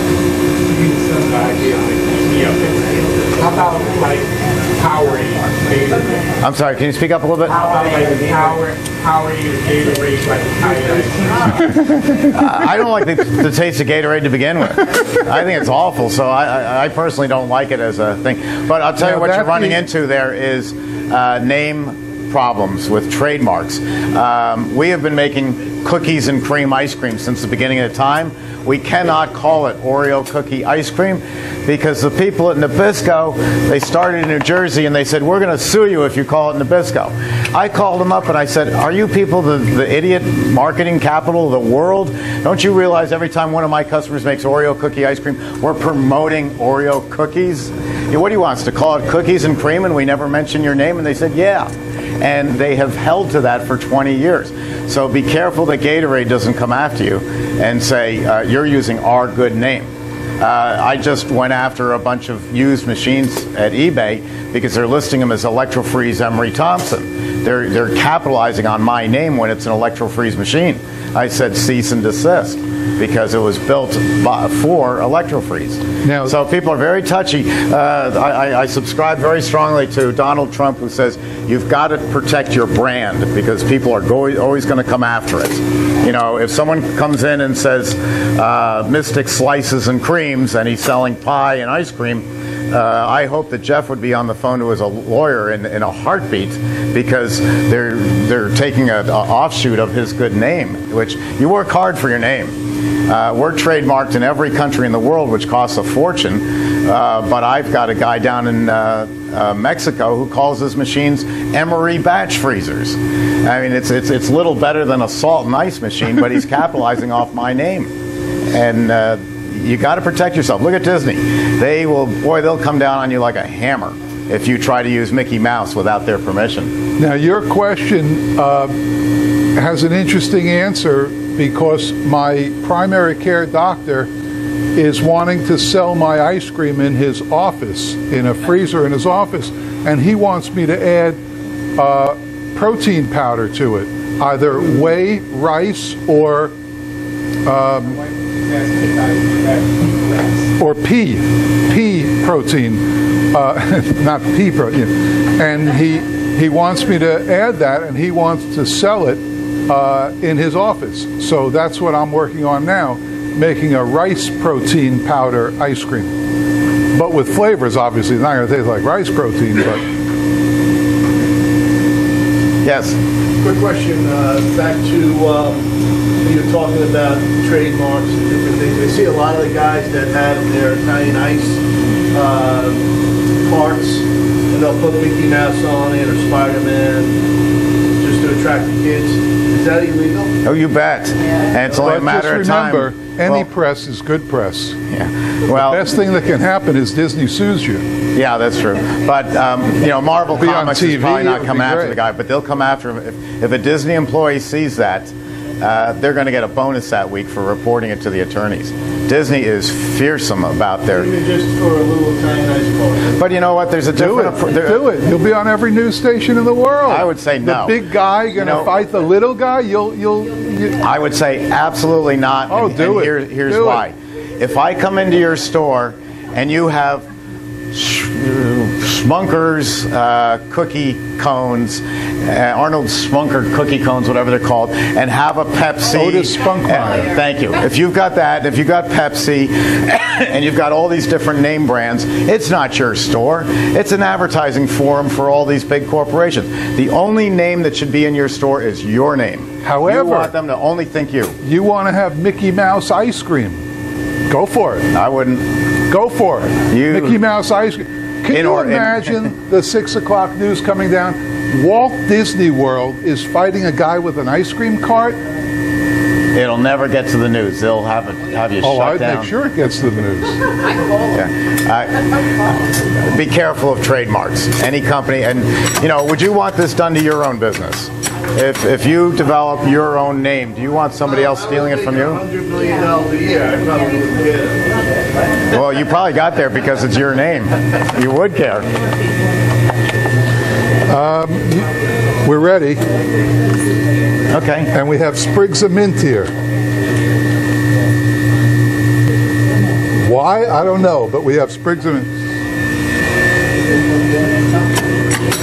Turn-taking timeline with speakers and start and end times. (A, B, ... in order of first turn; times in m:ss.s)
0:00.7-0:06.3 A
0:06.4-0:07.6 B
0:07.5-0:11.8 A
0:12.3-1:42.6 B
0:19.0-0:19.8 C
1:16.0-1:16.4 C
1:43.1-1:57.9 B
1:58.5-2:06.7 B
2:07.0-2:08.7 C
2:09.6-2:14.1 C
2:14.8-2:21.2 C
2:21.8-2:26.6 C
2:27.4-2:28.0 C
2:27.9-2:30.5 A
2:30.6-2:46.2 C
2:46.9-2:49.8 C
2:52.6-2:53.0 B
2:53.4-2:55.6 D
2:56.2-3:01.6 D
3:02.1-3:02.8 D
3:03.4-3:07.2 D
3:08.0-3:10.4 D
3:10.4-3:13.5 B
3:11.7-3:14.8 C
3:14.9-3:15.9 B
3:15.5-3:17.8 C
3:18.2-3:31.1 B
3:20.3-3:22.0 C
3:30.9-3:33.3 D
3:33.2-3:34.8 B
3:34.0-3:40.8 C
3:36.9-3:38.7 B
3:40.8-3:47.1 B
3:42.5-3:43.9 C
3:47.7-4:11.4 B
3:55.9-3:57.1 C
4:09.6-4:10.3 C
4:11.4-4:13.6 C
4:14.3-4:14.9 C
4:14.9-4:15.5 B
4:15.9-4:25.2 C
4:16.7-4:17.2 B
4:18.3-4:19.1 B
4:26.3-4:29.3 B
4:28.6-4:30.4 C
4:31.1-4:42.2 B
4:41.0-4:45.0 D
4:45.5-4:48.7 B
4:50.9-4:51.7 C
4:52.2-4:52.9 C
4:54.3-4:54.7 B
4:54.7-4:56.3 C
5:00.0-5:02.1 C